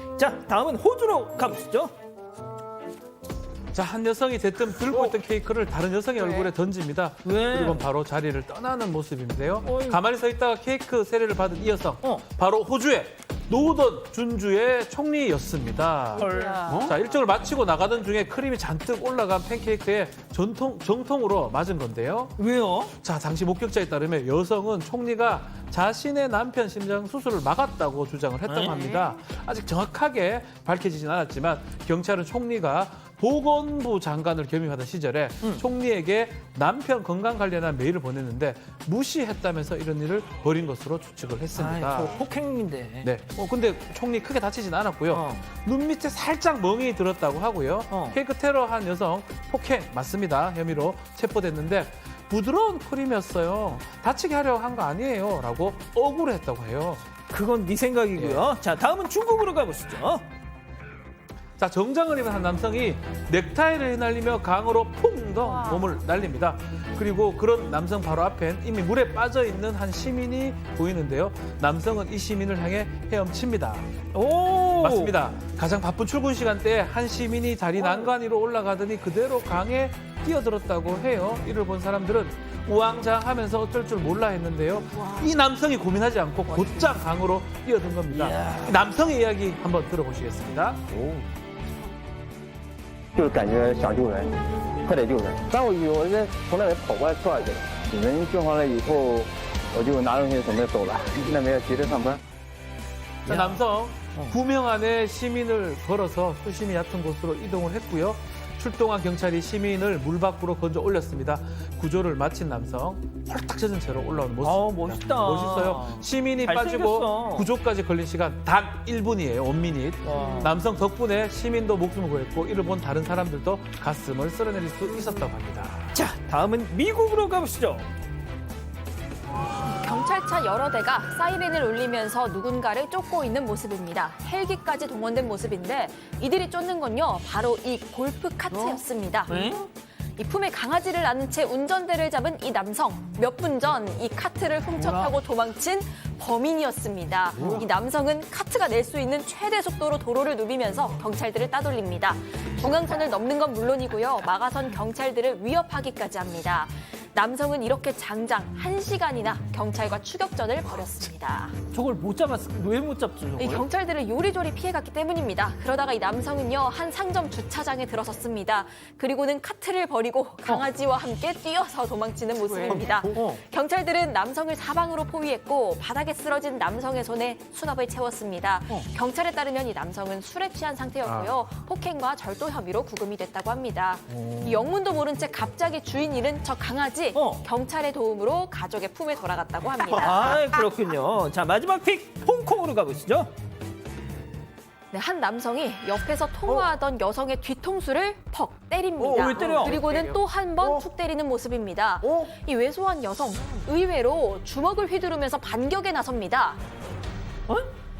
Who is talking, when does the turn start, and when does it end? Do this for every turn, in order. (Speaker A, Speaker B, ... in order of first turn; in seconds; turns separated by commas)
Speaker A: 0.2-1.9, Speaker B: 3.7-22.3, Speaker A: 4.8-5.1, Speaker A: 6.2-6.5, Speaker A: 7.2-7.9, Speaker A: 9.6-10.0, Speaker A: 16.1-16.9, Speaker A: 22.4-22.9, Speaker B: 22.9-42.2, Speaker A: 28.5-29.0, Speaker A: 41.5-43.1, Speaker B: 43.0-57.0, Speaker A: 45.1-45.4, Speaker A: 47.9-48.2, Speaker A: 57.3-60.2, Speaker B: 58.2-58.5, Speaker B: 61.6-73.9, Speaker A: 74.1-75.2, Speaker B: 74.8-90.8, Speaker A: 77.7-78.1, Speaker A: 88.1-88.8, Speaker C: 91.0-91.2, Speaker C: 93.1-102.2, Speaker B: 103.2-125.9, Speaker A: 103.3-103.6, Speaker A: 114.4-117.5, Speaker A: 120.0-120.5, Speaker A: 125.9-127.9, Speaker D: 129.6-139.5, Speaker A: 139.3-139.7, Speaker D: 140.2-161.5, Speaker A: 144.8-145.1, Speaker A: 161.7-163.6, Speaker D: 163.4-190.3, Speaker A: 173.1-173.4, Speaker A: 184.2-184.5, Speaker A: 187.1-187.4, Speaker A: 189.8-193.3, Speaker D: 194.9-206.6, Speaker A: 199.0-199.8, Speaker B: 199.2-200.2, Speaker A: 202.0-202.3